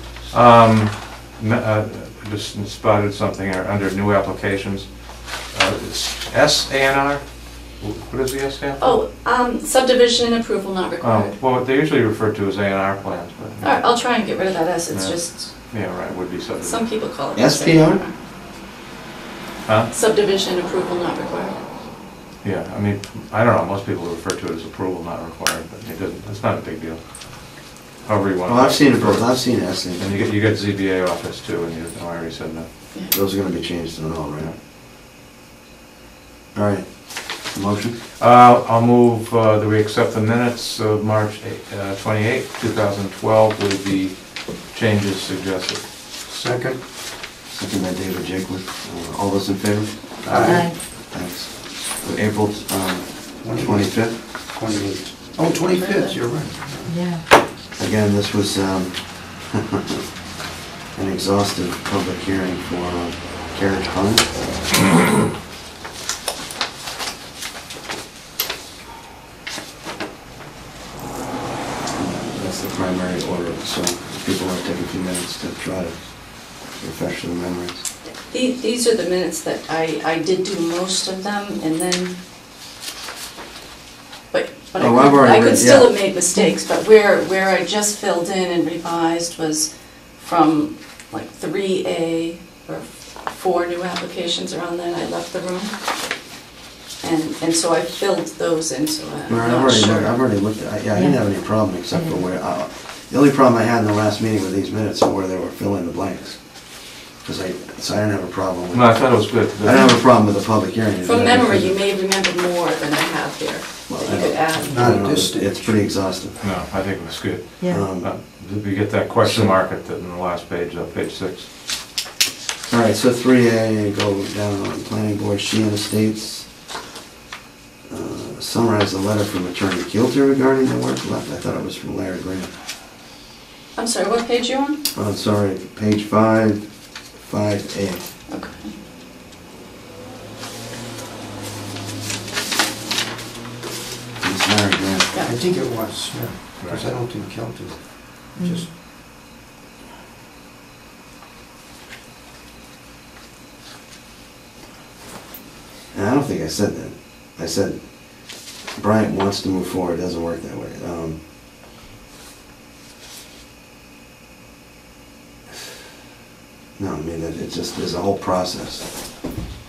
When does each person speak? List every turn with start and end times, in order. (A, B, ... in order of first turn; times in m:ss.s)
0:00.3-0:09.0 A
0:08.8-0:11.4 B
0:11.0-0:14.0 A
0:13.6-0:15.5 B
0:14.9-0:16.8 A
0:16.6-0:18.1 B
0:17.3-0:18.0 C
0:19.9-0:21.6 B
0:22.4-0:27.0 A
0:28.0-0:29.4 A
0:28.4-0:30.1 C
0:30.0-0:32.7 A
0:33.1-0:34.5 C
0:36.5-0:38.0 C
0:38.2-0:45.8 A
0:46.2-0:46.8 D
0:47.5-0:54.2 C
0:50.2-0:50.7 D
0:50.4-0:50.8 E
0:53.4-0:57.0 D
0:55.6-0:56.2 B
0:56.9-0:57.2 E
0:57.8-1:00.0 C
1:00.9-1:04.3 C
1:11.9-1:17.8 C
1:18.3-1:22.2 B
1:24.3-1:35.7 B
1:24.8-1:26.0 C
1:37.0-1:40.2 B
1:39.3-1:51.8 C
1:40.9-1:41.3 E
1:41.9-1:42.2 E
1:48.7-1:49.9 A
1:49.7-1:49.9 E
1:51.0-1:55.0 B
1:53.9-1:56.4 C
1:54.6-1:55.8 D
1:56.4-2:01.5 A
1:57.6-1:57.9 E
1:57.7-1:58.1 C
1:59.2-1:59.5 C
2:02.6-2:06.5 C
2:07.9-2:12.5 C
2:13.7-2:14.8 B
2:14.9-2:16.6 C
2:17.2-2:18.0 C
2:18.3-2:18.7 B
2:24.2-2:25.1 C
2:25.2-2:28.7 D
2:28.4-2:28.6 E
2:35.9-2:41.2 C
2:46.8-2:49.1 C